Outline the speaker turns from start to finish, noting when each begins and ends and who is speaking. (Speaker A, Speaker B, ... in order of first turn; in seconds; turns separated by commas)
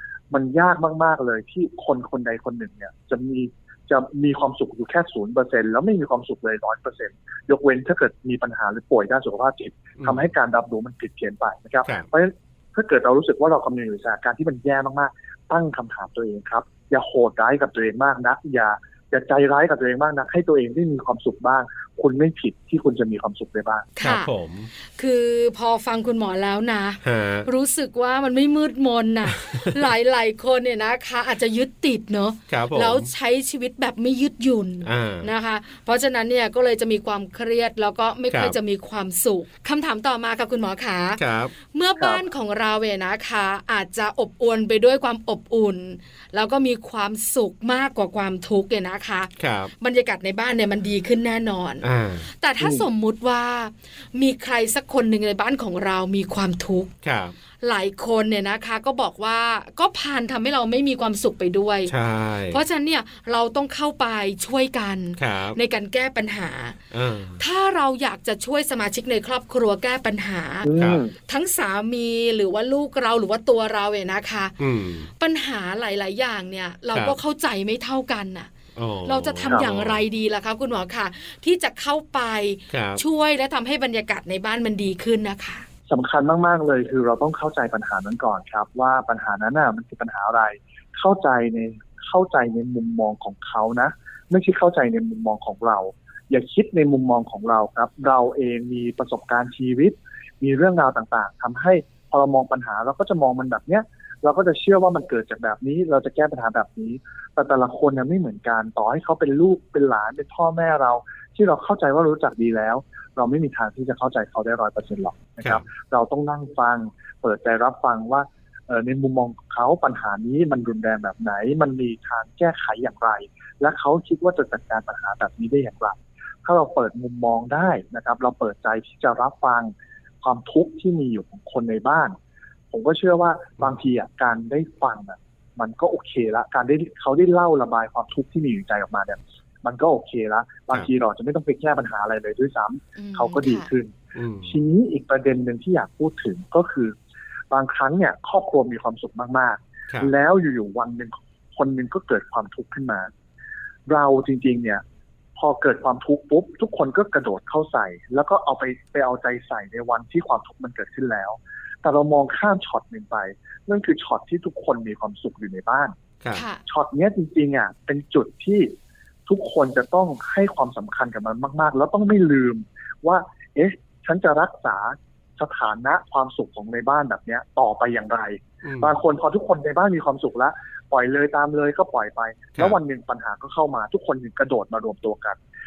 Speaker A: 0.3-23.9, Speaker B: 24.0-24.3, Speaker C: 24.0-24.7, Speaker B: 25.0-41.2, Speaker C: 27.0-27.5, Speaker C: 29.3-29.8, Speaker C: 32.5-33.1, Speaker C: 34.8-35.3, Speaker C: 38.3-38.5, Speaker C: 41.2-41.5, Speaker B: 41.7-51.9, Speaker C: 49.4-49.7, Speaker C: 51.8-52.3, Speaker B: 52.4-56.9, Speaker C: 57.0-57.3, Speaker B: 57.6-61.9, Speaker C: 61.9-62.6, Speaker B: 62.5-66.8, Speaker C: 65.2-65.6, Speaker C: 66.9-67.4, Speaker B: 67.4-70.7, Speaker A: 70.6-71.1, Speaker C: 70.8-71.0, Speaker B: 71.3-74.5, Speaker C: 74.6-75.1, Speaker B: 75.2-78.5, Speaker C: 78.8-80.0, Speaker B: 79.0-85.7, Speaker C: 82.7-83.0, Speaker A: 85.9-132.2, Speaker A: 132.7-143.9, Speaker B: 143.0-143.7, Speaker C: 144.2-144.6, Speaker A: 144.4-146.9, Speaker A: 147.5-153.1, Speaker A: 153.9-154.8, Speaker A: 155.4-165.9, Speaker B: 166.3-166.6, Speaker A: 166.7-168.7, Speaker A: 169.3-185.4, Speaker C: 178.6-178.9